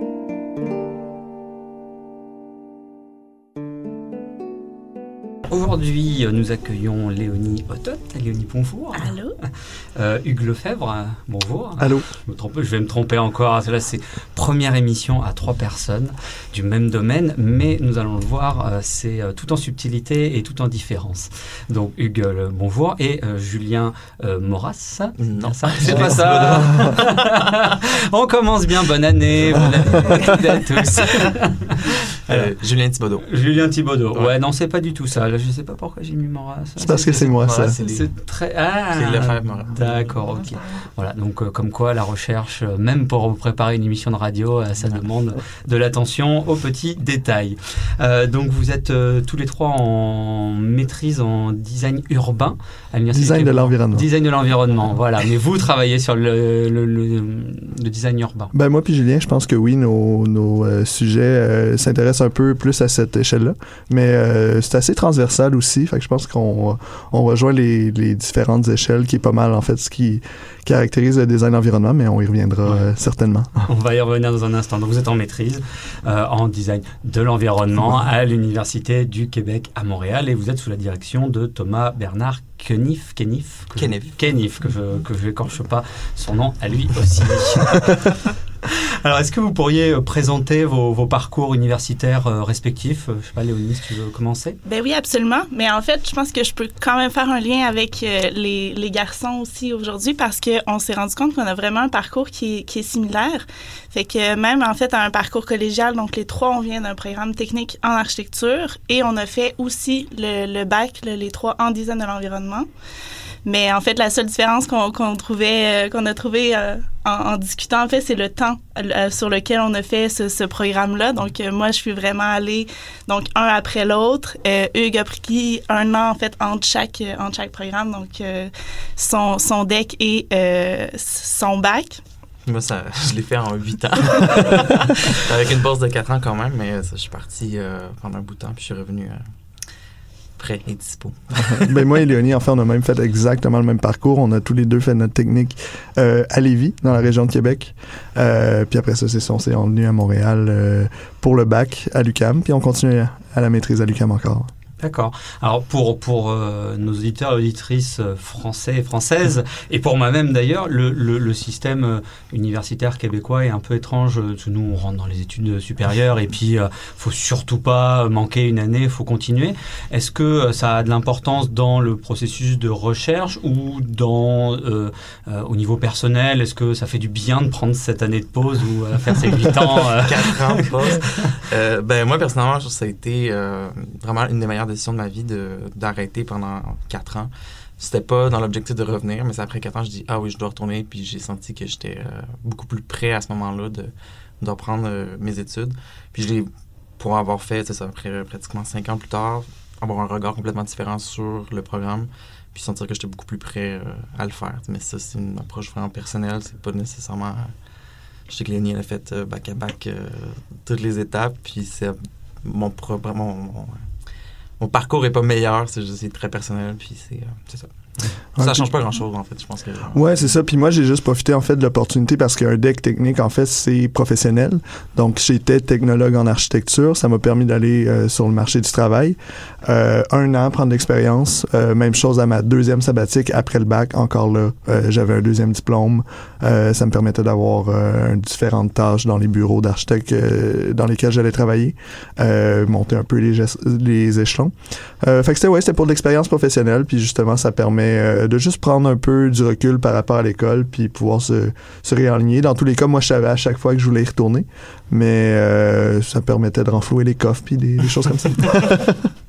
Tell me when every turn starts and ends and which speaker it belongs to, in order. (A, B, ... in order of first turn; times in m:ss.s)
0:05.5-0:32.5 A
0:09.0-0:09.4 B
0:11.8-0:12.1 C
0:25.2-0:27.3 D
0:29.6-0:31.4 D
0:32.3-0:33.3 D
0:33.2-0:58.5 A
0:36.8-0:37.8 C
0:37.1-0:38.1 D
0:38.9-0:40.4 D
0:53.1-0:54.1 C
0:58.5-1:13.6 C
1:13.7-1:28.1 A
1:23.8-1:24.2 D
1:28.6-1:34.6 A
1:34.7-1:52.7 B
1:53.4-2:12.0 B
2:12.5-2:19.2 D
2:20.4-2:21.7 D
2:21.6-2:34.5 C
2:34.8-3:01.4 A
2:59.9-3:27.5 D
3:28.3-3:33.9 D
3:34.6-3:37.7 D
3:38.4-3:40.3 D
3:38.4-3:38.7 C
3:39.9-4:19.0 C